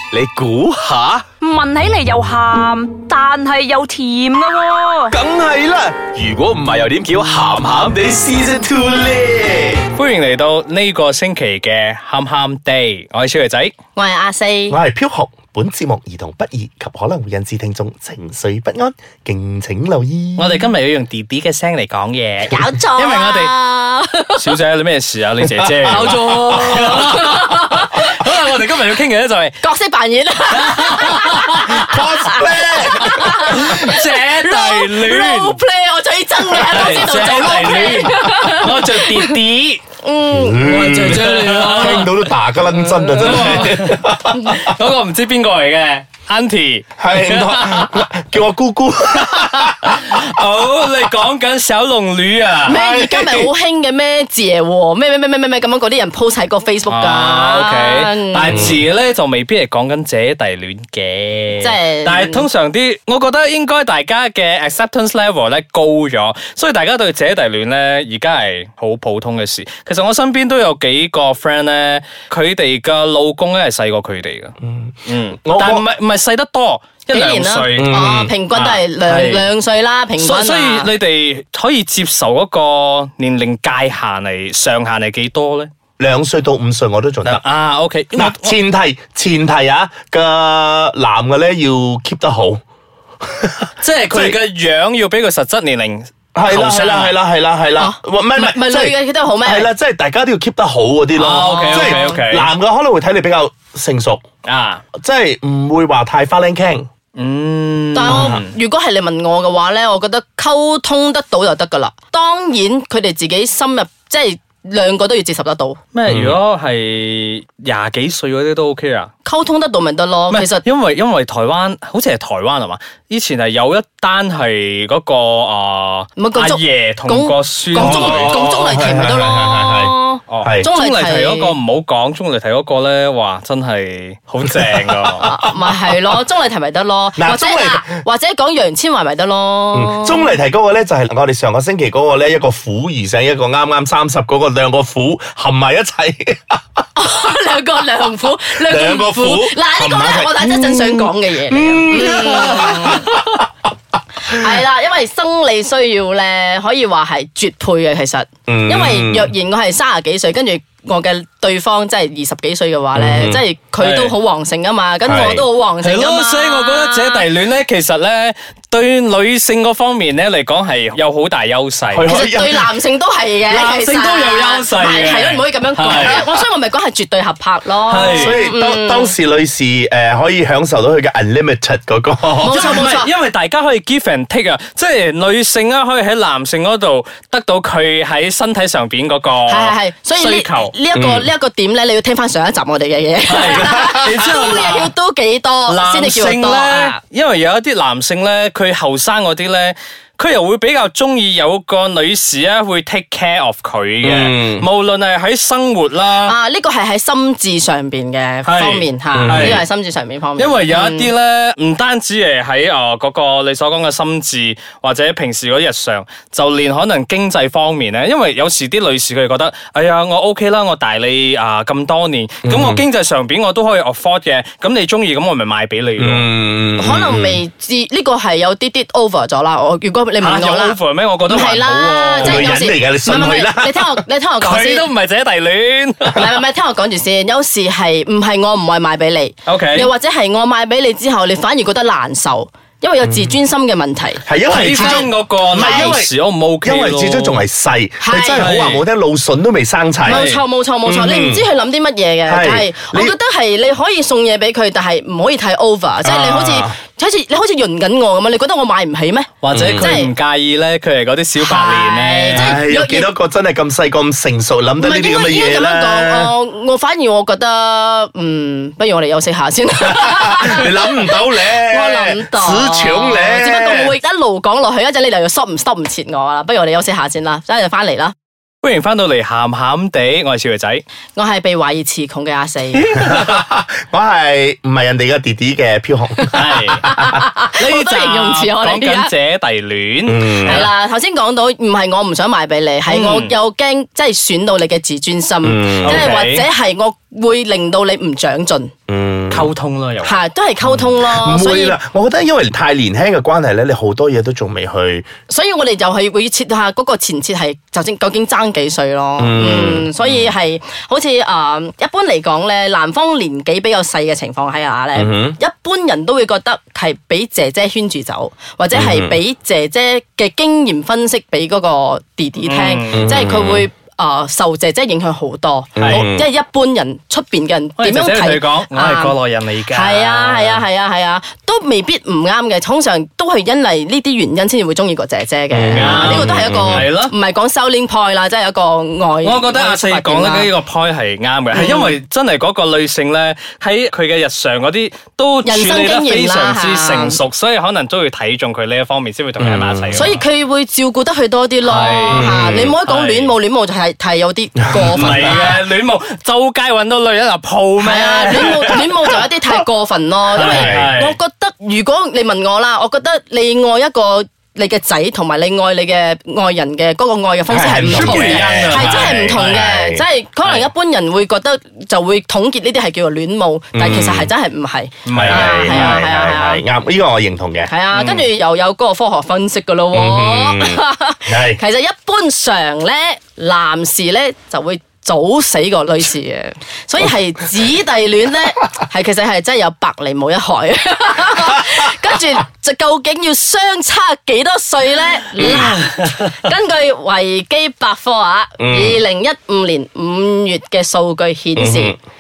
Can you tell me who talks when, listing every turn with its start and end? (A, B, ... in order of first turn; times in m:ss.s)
0:00.1-0:01.3 A
0:01.6-0:05.1 B
0:04.7-0:09.8 A
0:05.1-0:06.1 C
0:08.4-0:09.5 C
0:09.9-0:13.7 D
0:14.0-0:14.8 E
0:14.7-0:20.7 C
0:20.4-0:23.5 D
0:22.5-0:24.5 E
0:24.4-0:29.6 D
0:25.6-0:26.9 C
0:25.8-0:27.9 E
0:29.6-0:39.4 E
0:30.5-0:31.9 D
0:31.6-0:33.6 C
0:32.8-0:35.6 D
0:36.5-0:39.8 D
0:40.0-0:40.8 E
0:40.3-0:44.7 C
0:40.6-0:42.0 A
0:40.7-0:48.1 D
0:47.0-0:50.1 C
0:49.1-0:52.8 D
0:52.6-0:53.5 C
0:52.6-0:58.7 E
0:56.9-1:14.6 D
0:58.5-0:58.8 C
1:01.6-1:02.5 E
1:14.6-1:15.9 C
1:15.1-1:19.5 D
1:17.1-1:20.9 E
1:17.8-1:18.3 C
1:20.2-1:25.7 D
1:26.0-1:27.4 C
1:27.2-1:28.6 D
1:28.1-1:32.6 C
1:33.3-1:34.4 C
1:33.8-1:37.2 D
1:36.4-1:44.2 C
1:37.8-1:39.7 E
1:41.1-1:42.5 D
1:41.4-1:42.2 E
1:44.4-1:44.8 D
1:45.0-1:46.9 C
1:47.2-1:48.5 D
1:47.9-1:55.8 E
1:48.1-1:48.4 C
1:55.9-1:59.1 D
1:56.1-1:56.4 C
1:59.2-2:00.6 E
2:00.3-2:08.4 D
2:06.2-2:11.6 E
2:07.7-2:10.7 C
2:10.3-2:15.3 D
2:14.6-2:15.6 C
2:15.2-2:20.3 E
2:17.2-2:17.9 C
2:19.7-2:26.6 C
2:27.0-2:33.0 E
2:28.6-2:33.4 C
2:32.4-2:32.8 D
2:34.2-2:47.2 E
2:38.5-2:39.3 C
2:43.0-2:43.4 C
2:43.8-2:44.1 D
2:45.0-2:45.4 C
2:45.8-2:52.1 D
2:51.9-2:52.7 C
2:52.1-2:59.1 E
2:53.5-2:56.2 D
2:57.9-2:58.4 D
2:57.9-3:02.9 C
3:02.4-3:03.1 E
3:02.4-3:10.7 D
3:09.5-3:17.0 E
3:10.9-3:11.3 C
3:13.3-3:14.9 D
3:13.6-3:14.1 C
3:15.7-3:26.3 D
3:24.0-3:24.7 C
3:26.2-3:31.1 E
3:28.4-3:29.6 D
3:29.1-3:29.6 C
3:30.4-3:46.3 D
3:42.4-3:42.8 C
3:46.0-3:47.4 C
3:46.8-3:54.9 E
3:50.2-3:52.5 D
3:52.2-3:54.0 C
3:54.4-3:56.3 D
3:56.1-4:06.0 E
3:59.5-3:59.9 D
4:03.0-4:03.3 C
4:04.3-4:11.4 C
4:04.4-4:07.4 D
4:08.0-4:08.5 E
4:08.4-4:08.8 D
4:10.0-4:20.1 E
4:10.1-4:10.4 D
4:12.3-4:13.2 C
4:16.0-4:16.8 C
4:19.4-4:22.6 D
4:19.5-4:19.9 C
4:21.4-4:23.1 E
4:22.3-4:26.4 C
4:24.8-4:38.1 E
4:29.8-4:34.0 C
4:38.6-4:40.8 D
4:41.2-4:42.9 E
4:42.8-4:43.4 D
4:42.9-4:47.2 C
4:46.3-4:46.9 D
4:46.5-4:49.1 E
4:47.6-4:50.7 D
4:50.1-4:50.7 C
4:50.4-4:58.7 E
4:52.9-4:53.3 D
4:55.4-4:56.2 C
4:55.8-4:56.5 D
4:58.9-4:59.5 C
4:59.3-5:00.8 D
5:00.0-5:01.8 E
5:00.7-5:05.1 C
5:05.3-5:40.5 E
5:09.2-5:09.9 C
5:10.0-5:10.3 D
5:15.0-5:15.4 C
5:18.7-5:19.2 C
5:22.4-5:23.3 D
5:22.9-5:23.7 C
5:25.8-5:26.0 D
5:25.8-5:26.3 C
5:27.8-5:30.6 D
5:35.5-5:36.9 C
5:35.7-5:37.1 D
5:39.2-5:50.2 D
5:41.5-5:42.0 E
5:45.4-5:47.2 E
5:49.4-5:50.2 C
5:49.9-5:55.6 E
5:51.6-5:53.3 D
5:52.1-5:52.8 C
5:54.7-5:55.3 C
5:54.7-5:59.1 D
5:57.8-6:16.6 E
6:00.3-6:01.2 D
6:00.4-6:00.9 C
6:07.5-6:10.0 C
6:07.8-6:09.7 D
6:13.7-6:14.3 C
6:15.0-6:16.1 D
6:15.1-6:17.7 C
6:17.7-6:42.0 E
6:17.9-6:18.3 D
6:19.9-6:21.6 C
6:35.4-6:35.7 C
6:35.4-6:36.2 D
6:38.6-6:39.0 C
6:41.6-6:42.0 C